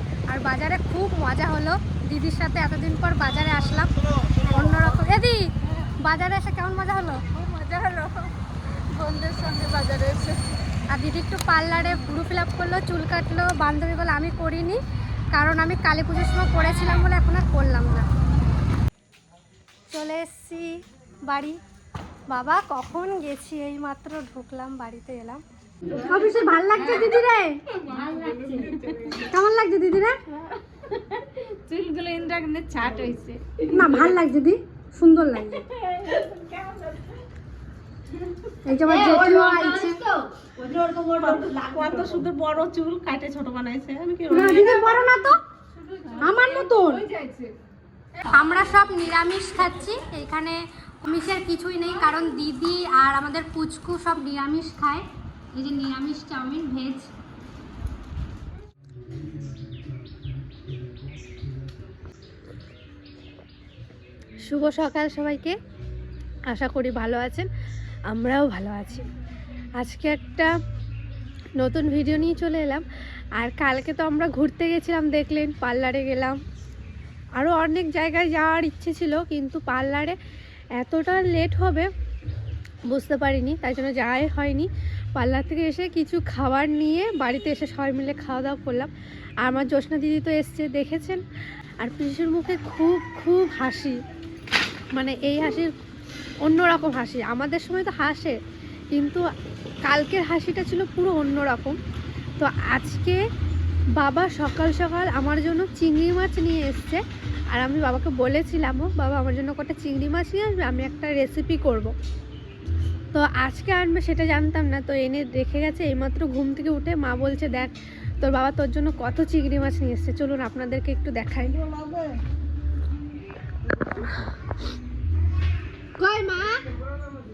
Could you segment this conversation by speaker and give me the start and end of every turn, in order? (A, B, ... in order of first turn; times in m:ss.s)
0:00.3-0:05.5 A
0:06.0-0:07.2 A
0:07.3-0:10.4 B
0:10.9-0:14.8 A
0:15.3-0:18.1 A
0:19.9-0:21.6 A
0:22.3-0:25.4 A
0:25.9-0:27.6 A
0:27.8-0:29.2 B
0:29.1-0:30.2 A
0:30.9-0:34.1 B
0:33.7-0:35.6 A
0:35.7-0:37.1 B
0:38.6-0:40.0 A
0:38.8-0:45.1 B
0:44.3-0:45.4 A
0:45.8-0:47.5 B
0:46.2-0:47.0 A
0:48.2-0:57.1 A
1:04.4-1:05.6 A
1:06.5-1:07.5 A
1:08.1-1:09.1 A
1:09.8-1:10.5 A
1:11.6-1:12.8 A
1:13.4-1:16.4 A
1:17.4-1:20.2 A
1:20.8-1:21.9 A
1:22.9-1:28.9 A
1:29.4-1:31.2 A
1:31.8-1:34.0 A
1:34.9-1:35.7 A
1:36.4-1:38.4 A
1:38.9-1:39.2 A
1:39.9-1:41.8 A
1:42.4-1:43.2 A
1:44.0-1:47.0 A
1:47.5-1:51.9 A
1:53.1-2:01.6 A
2:01.6-2:02.1 B
2:06.0-2:06.6 A